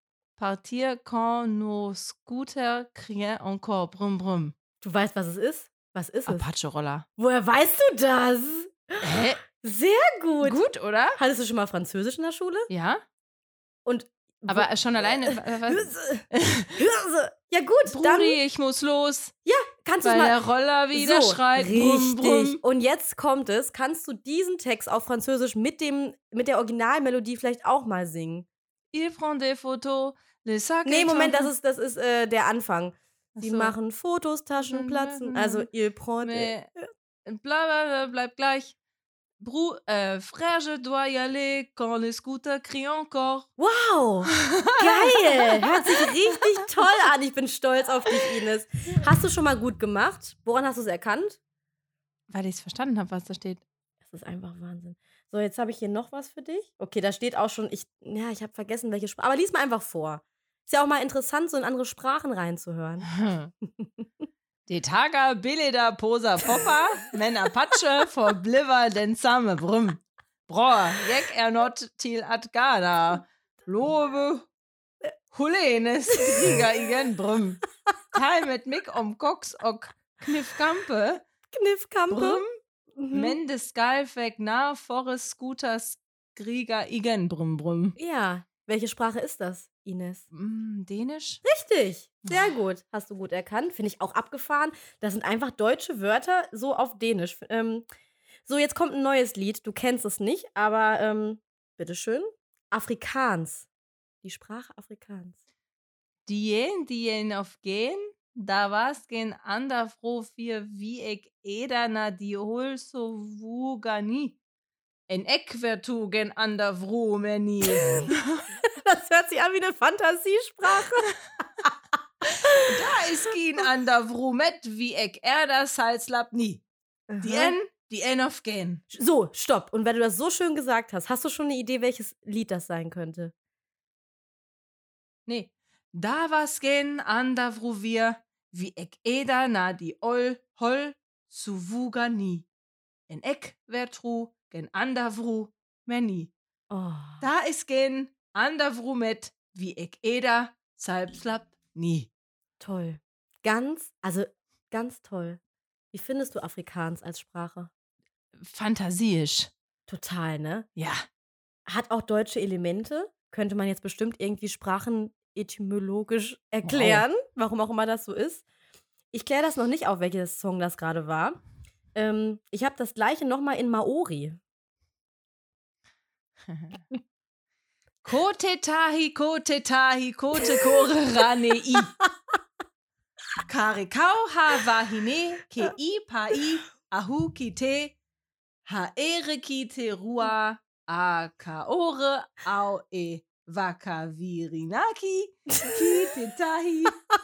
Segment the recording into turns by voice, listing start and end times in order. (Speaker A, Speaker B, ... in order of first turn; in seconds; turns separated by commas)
Speaker A: 0.4-4.5, Speaker B: 4.8-6.5, Speaker A: 6.3-7.0, Speaker B: 7.2-10.6, Speaker A: 9.0-9.4, Speaker A: 10.4-11.2, Speaker B: 11.2-12.7, Speaker A: 12.7-13.0, Speaker B: 13.9-18.4, Speaker A: 14.5-16.8, Speaker A: 17.9-19.3, Speaker B: 19.5-20.4, Speaker A: 20.0-22.6, Speaker B: 20.9-28.5, Speaker A: 28.9-31.5, Speaker B: 30.9-36.5, Speaker A: 33.4-33.8, Speaker A: 34.6-35.7, Speaker A: 36.2-36.7, Speaker A: 37.2-38.8, Speaker A: 39.4-43.5, Speaker B: 43.6-51.4, Speaker A: 44.3-46.4, Speaker A: 52.3-53.6, Speaker B: 54.1-63.1, Speaker A: 63.1-63.5, Speaker B: 63.6-64.0, Speaker A: 64.7-74.5, Speaker A: 75.3-77.6, Speaker A: 78.1-81.2, Speaker B: 81.5-82.4, Speaker A: 82.1-82.5, Speaker B: 83.0-83.4, Speaker A: 83.1-88.0, Speaker B: 88.0-90.3, Speaker A: 90.3-91.4, Speaker B: 91.4-97.8, Speaker A: 92.3-92.5, Speaker B: 98.5-103.7, Speaker B: 104.2-105.4, Speaker A: 106.3-114.4, Speaker A: 115.1-118.5, Speaker B: 117.8-118.1, Speaker B: 118.7-121.7, Speaker B: 122.3-122.7, Speaker A: 122.5-126.6, Speaker B: 127.1-127.5, Speaker A: 127.2-128.8, Speaker B: 128.9-133.3, Speaker A: 135.3-142.5, Speaker A: 143.1-146.3, Speaker B: 146.7-147.3, Speaker A: 147.2-152.1, Speaker B: 152.6-155.4, Speaker B: 155.9-157.7, Speaker A: 158.4-159.5, Speaker B: 159.9-160.7, Speaker A: 160.8-161.0, Speaker B: 161.7-168.4, Speaker A: 166.6-167.1, Speaker B: 169.1-171.4, Speaker B: 171.9-174.4, Speaker A: 176.5-176.8, Speaker A: 178.0-181.9, Speaker A: 183.5-187.9, Speaker A: 188.7-197.0